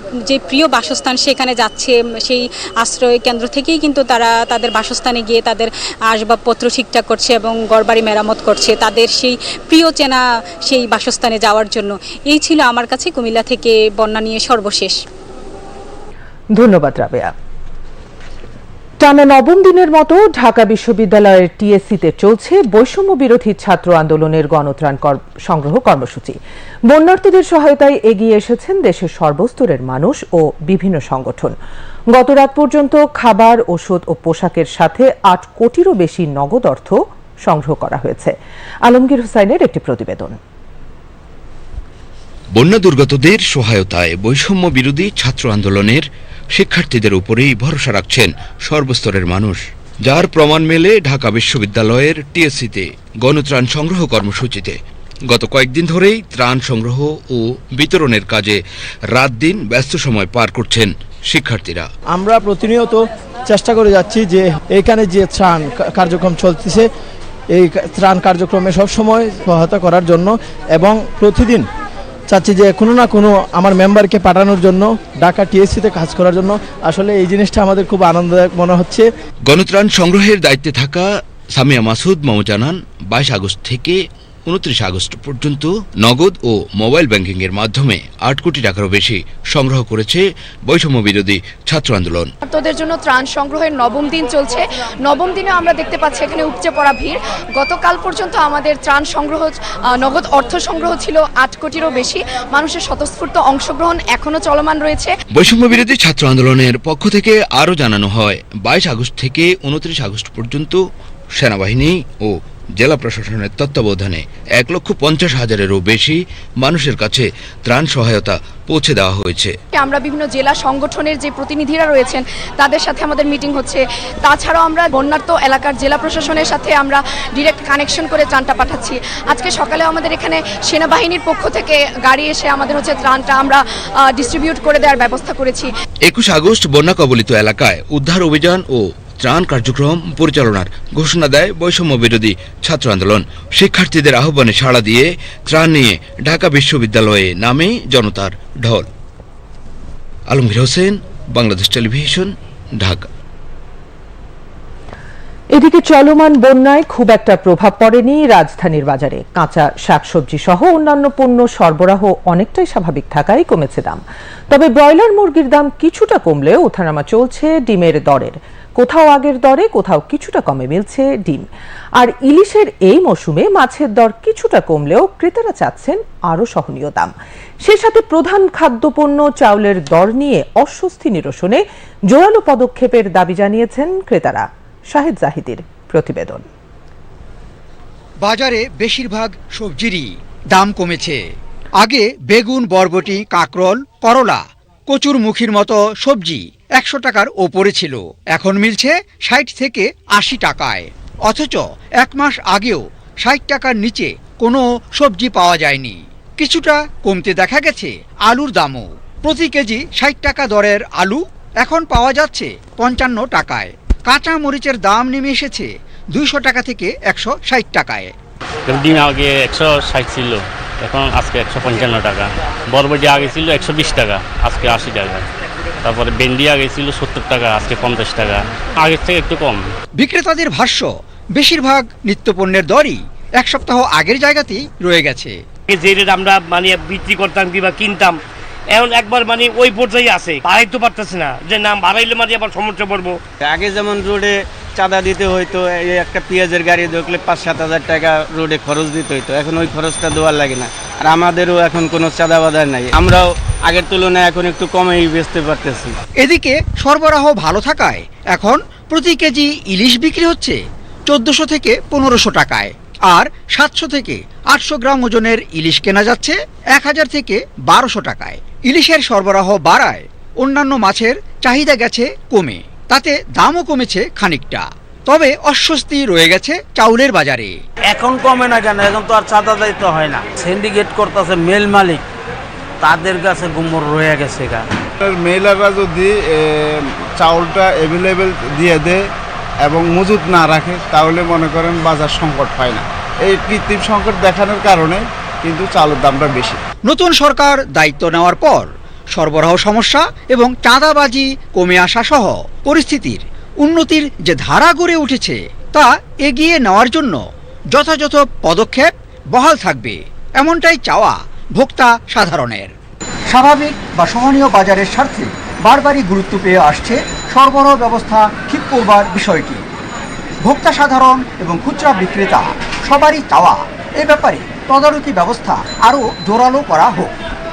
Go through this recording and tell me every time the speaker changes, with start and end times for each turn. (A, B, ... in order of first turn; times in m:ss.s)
0:00.3-0:15.0 A
0:16.6-0:17.3 B
0:19.0-0:26.4 B
0:26.9-0:31.6 B
0:32.1-0:38.4 B
0:38.9-0:40.4 B
0:42.6-0:58.6 C
0:59.1-1:01.9 C
1:02.1-1:06.9 D
1:07.5-1:11.7 D
1:12.3-1:19.1 D
1:19.5-1:32.3 C
1:32.5-1:45.1 E
1:45.4-1:50.8 C
1:51.4-1:59.6 C
1:59.8-2:15.7 E
2:16.1-2:28.9 C
2:30.3-2:33.1 C
2:35.5-2:51.5 B
2:52.0-2:57.1 B
2:57.6-3:06.5 B
3:08.2-3:38.1 F
3:38.7-3:45.2 G
3:45.8-3:49.6 G
3:50.0-3:55.4 F
3:55.7-3:58.2 H
3:58.7-4:03.2 H
4:03.6-4:04.3 I
4:04.8-4:05.4 I
4:06.5-4:09.1 I
4:09.7-4:10.6 I
4:11.2-4:11.6 I
4:12.2-4:13.2 I
4:13.9-4:15.8 I
4:16.2-4:37.6 F
4:37.9-4:42.0 J
4:42.8-4:44.6 J
4:45.0-4:49.0 K
4:49.6-4:56.6 K
4:56.8-5:07.2 F
5:07.7-5:12.7 F
5:13.3-5:19.6 F
5:20.4-5:27.1 F